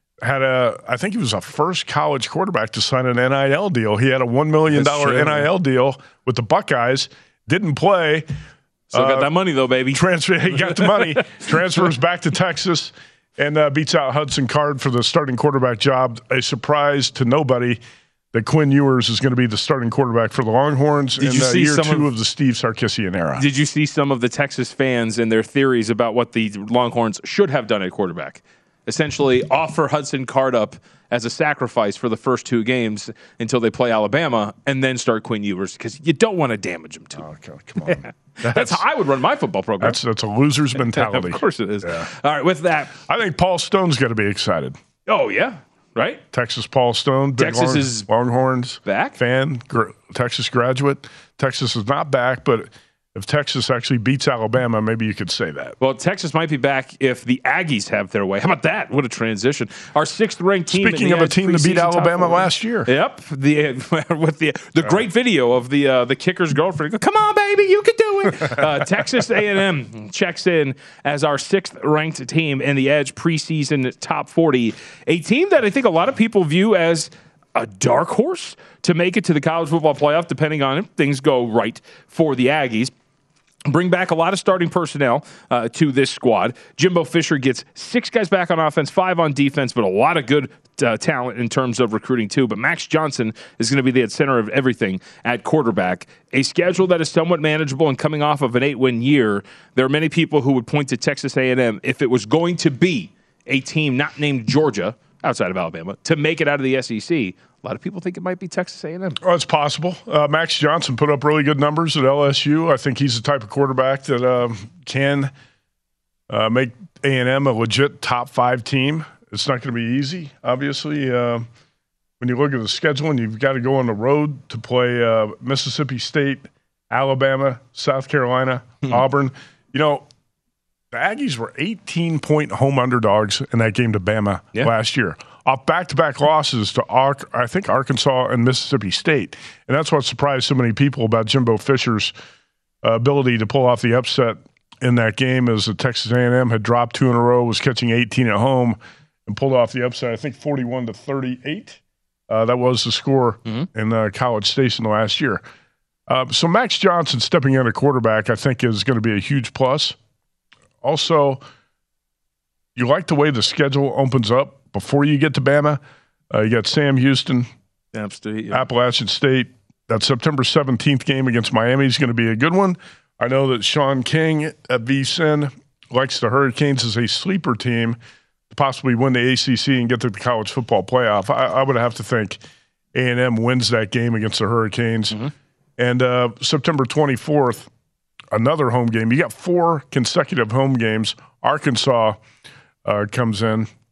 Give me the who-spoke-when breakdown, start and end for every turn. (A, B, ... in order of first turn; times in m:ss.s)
0:00.2-0:08.3 A
0:04.7-0:05.5 B
0:08.9-0:09.3 A
0:08.9-0:11.5 B
0:09.9-0:17.8 A
0:18.3-0:23.4 A
0:21.2-0:22.1 B
0:23.4-0:37.2 B
0:37.2-0:38.8 A
0:37.8-0:40.0 B
0:39.8-0:42.1 A
0:40.8-0:43.0 B
0:43.1-0:44.8 A
0:45.1-0:46.2 B
0:46.3-0:55.8 A
0:47.4-0:48.1 B
0:48.8-0:49.2 B
0:55.8-1:22.9 B
1:00.7-1:02.9 A
1:23.6-1:49.2 B
1:49.2-1:55.3 A
1:56.3-2:01.5 A
2:02.2-2:10.0 A
2:10.9-2:22.1 A
2:22.8-2:35.4 A
2:36.1-2:40.0 A
2:40.8-2:41.4 A
2:42.8-2:47.5 A
2:47.9-2:48.7 B
2:48.5-2:58.0 A
2:58.5-3:02.4 A
3:02.9-3:05.2 A
3:05.8-3:07.7 A
3:08.3-3:12.2 A
3:12.8-3:13.7 A